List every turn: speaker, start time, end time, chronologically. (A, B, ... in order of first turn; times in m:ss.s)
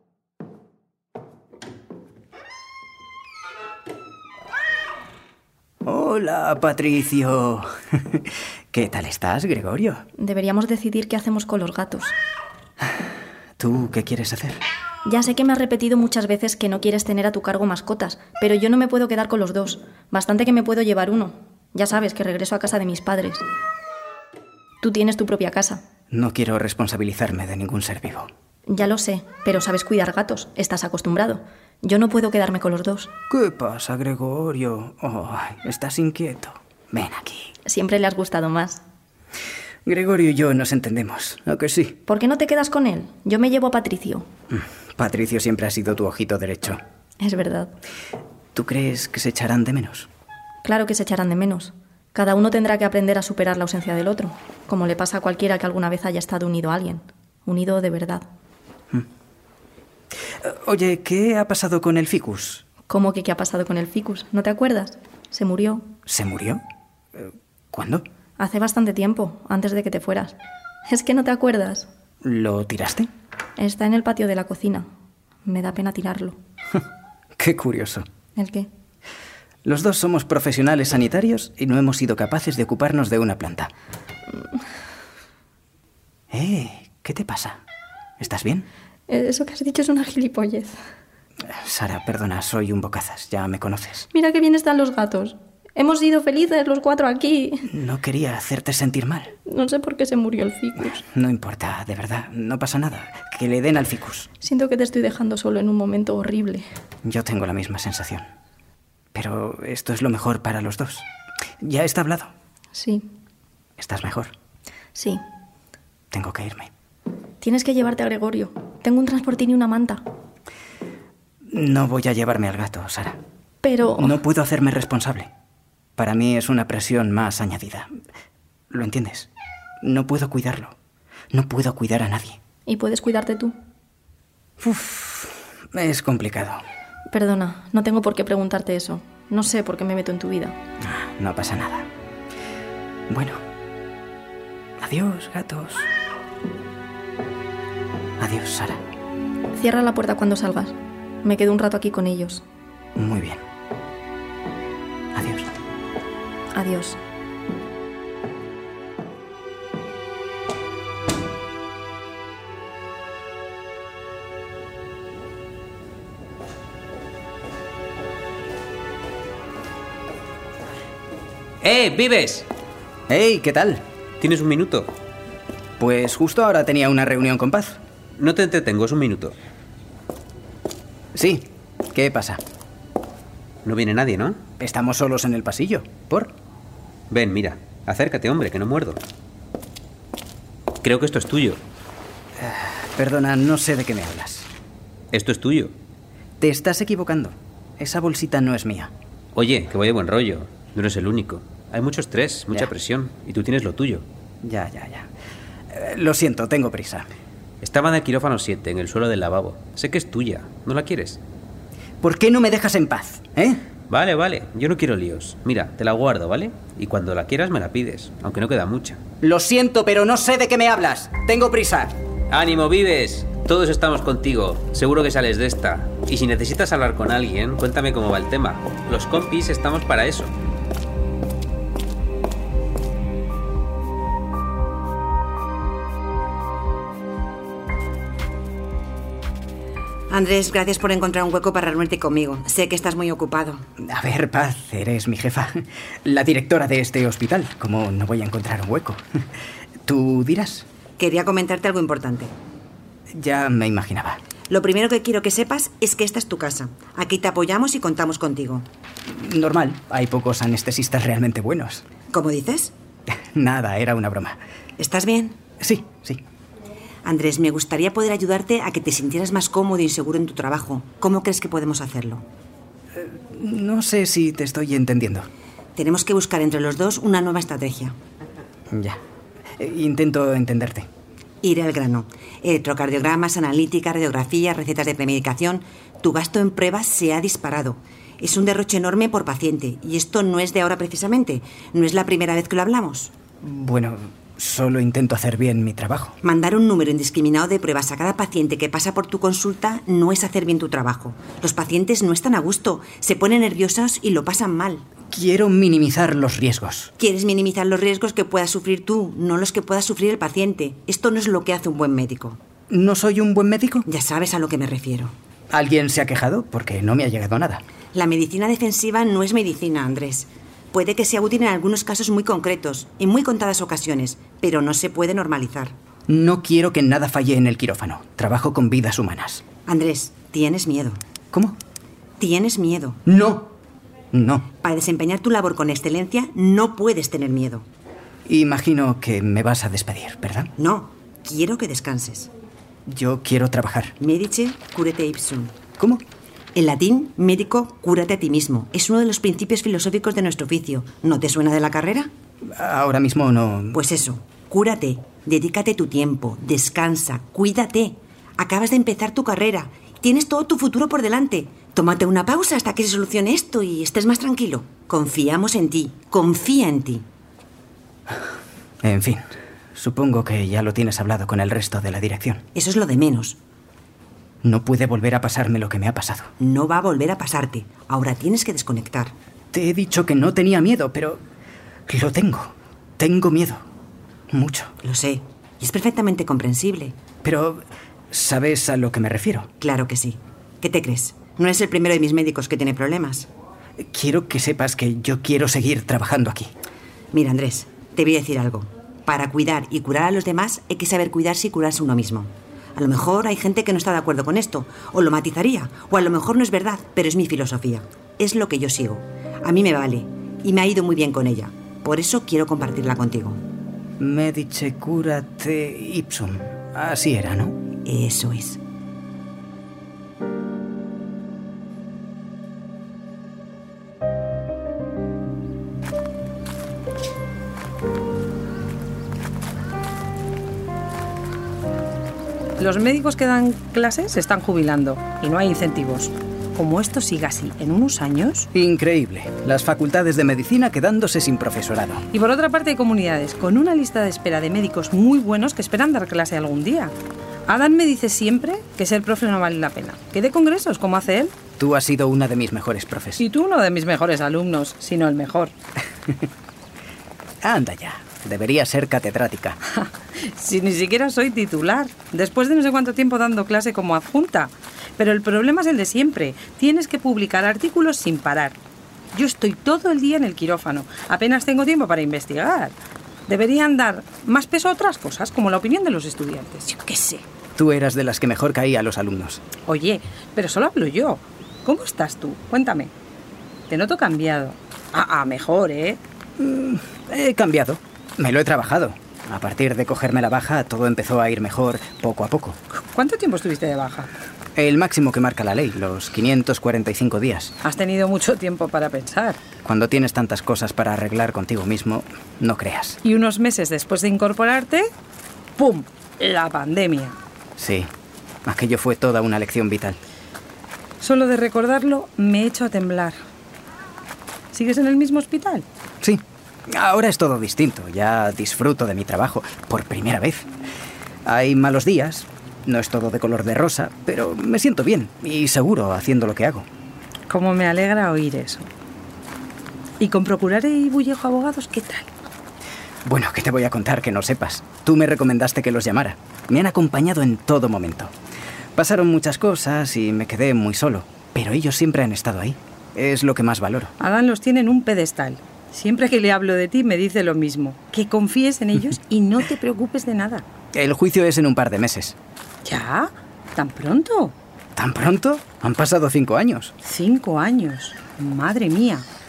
0:05.8-0:10.0 A
0:10.2-0:12.1 B
0:13.6-0:14.6 A
0:15.0-0:23.4 B
0:24.8-0:25.8 B
0:26.1-0:28.3 A
0:28.7-0:33.1 B
0:33.3-0:37.5 A
0:37.6-0:38.8 B
0:39.9-0:42.0 A
0:42.0-0:44.3 B
0:44.5-0:46.8 A
0:47.2-0:47.7 B
0:48.5-0:50.1 A
0:50.6-0:58.2 B
1:00.4-1:02.6 A
1:02.9-1:05.8 B
1:06.0-1:06.6 A
1:07.2-1:08.0 A
1:08.4-1:10.3 B
1:10.9-1:11.9 B
1:12.2-1:13.1 A
1:13.6-1:14.9 B
1:15.4-1:16.4 B
1:17.4-1:18.0 A
1:18.4-1:18.7 B
1:19.6-1:23.7 A
1:26.3-1:27.6 A
1:28.2-1:28.6 A
1:29.1-1:30.8 B
1:31.4-1:34.1 A
1:34.1-1:37.7 B
1:37.7-1:39.3 A
1:39.4-1:41.0 B
1:41.0-1:44.3 A
1:44.4-1:46.6 B
1:47.0-1:48.3 A
1:49.1-1:51.0 A
1:51.6-1:52.3 A
1:52.7-1:53.1 B
1:53.8-1:54.3 A
1:54.9-1:55.2 B
1:56.1-1:56.7 A
1:57.4-2:00.0 B
2:01.5-2:03.2 A
2:03.6-2:04.2 B
2:04.0-2:05.3 A
2:06.0-2:07.9 A
2:08.7-2:09.3 A
2:09.8-2:10.7 A
2:11.3-2:12.4 A
2:12.7-2:13.6 B
2:14.6-2:16.6 A
2:17.1-2:20.6 B
2:20.8-2:21.9 A
2:23.1-2:23.4 A
2:24.8-2:25.9 A
2:28.2-2:28.8 A
2:29.6-2:32.4 B
2:33.0-2:33.4 A
2:35.1-2:35.5 A
2:36.5-2:37.0 B
2:51.6-2:52.5 C
2:53.1-2:53.8 A
2:54.2-2:54.9 C
2:55.8-2:57.8 A
2:58.2-2:59.3 C
3:01.1-3:02.4 A
3:03.6-3:04.4 C
3:04.6-3:06.3 A
3:07.1-3:09.0 C
3:10.8-3:11.6 C
3:12.4-3:14.5 A
3:15.1-3:15.7 C
3:16.4-3:18.9 A
3:19.3-3:24.0 C
3:24.4-3:25.1 A
3:25.7-3:27.1 A
3:27.6-3:31.2 C
3:32.0-3:33.6 A
3:33.9-3:39.0 C
3:39.2-3:42.0 A
3:42.3-3:50.3 C
4:00.1-4:03.6 D
4:03.8-4:09.0 A
4:09.9-4:10.6 A
4:11.0-4:12.3 D
4:13.1-4:14.2 A
4:14.5-4:18.7 D
4:19.0-4:21.8 A
4:22.1-4:22.7 D
4:23.3-4:24.4 A
4:24.8-4:25.4 D
4:25.6-4:26.2 A
4:27.0-4:32.2 D
4:32.9-4:35.3 A
4:35.7-4:38.0 D
4:38.7-4:39.0 A
4:39.6-4:40.9 A
4:41.4-4:53.1 D
4:53.4-4:56.2 A
4:56.2-5:04.8 D
5:05.1-5:06.9 A
5:07.0-5:12.4 D
5:12.7-5:13.9 A
5:13.9-5:15.1 D
5:15.5-5:17.6 A
5:17.9-5:25.7 D
5:26.1-5:29.4 A
5:29.6-5:31.0 D
5:32.2-5:33.0 D
5:33.0-5:33.5 A
5:34.1-5:34.5 A
5:34.6-5:37.6 D
5:38.3-5:40.5 A
5:40.6-5:42.3 D
5:42.9-5:44.0 A
5:44.0-5:45.6 D
5:46.6-5:52.1 D
5:52.4-5:53.8 A
5:53.7-6:07.0 D
6:08.8-6:12.4 A
6:12.6-6:13.4 D
6:14.4-6:16.3 A
6:16.4-6:19.1 D
6:19.5-6:21.2 A
6:21.9-6:23.6 A
6:24.3-6:24.7 A
6:24.8-6:27.0 D
6:27.2-6:29.5 A
6:29.6-6:33.3 D
6:33.8-6:36.5 A
6:37.1-6:53.4 D
6:54.0-6:57.6 A
6:57.8-6:58.6 D
7:12.6-7:18.5 E
7:18.5-7:22.0 A
7:22.1-7:26.9 E
7:27.5-7:31.3 E
7:31.6-7:33.2 A
7:33.2-7:35.5 E
7:37.4-7:39.6 A
7:39.8-7:48.6 E
7:49.1-7:52.7 E
7:53.3-7:57.2 E
7:57.6-7:59.4 A
7:59.6-8:02.9 E
8:03.7-8:06.0 E
8:06.4-8:12.6 A
8:12.8-8:14.1 E
8:14.6-8:17.6 A
8:17.6-8:19.4 E
8:19.6-8:23.0 A
8:23.0-8:24.9 E
8:25.6-8:27.2 E
8:27.6-8:27.9 A
8:28.4-8:30.0 A
8:31.0-8:33.2 E
8:34.5-8:35.6 E
8:36.0-8:40.5 A
8:41.2-8:46.6 A
8:47.3-8:48.7 E
8:50.0-8:52.1 E
8:53.0-8:58.1 A
8:58.8-9:03.9 A
9:04.0-9:10.4 E
9:10.7-9:12.1 A
9:12.6-9:14.3 E
9:14.8-9:16.7 A
9:16.8-9:19.0 E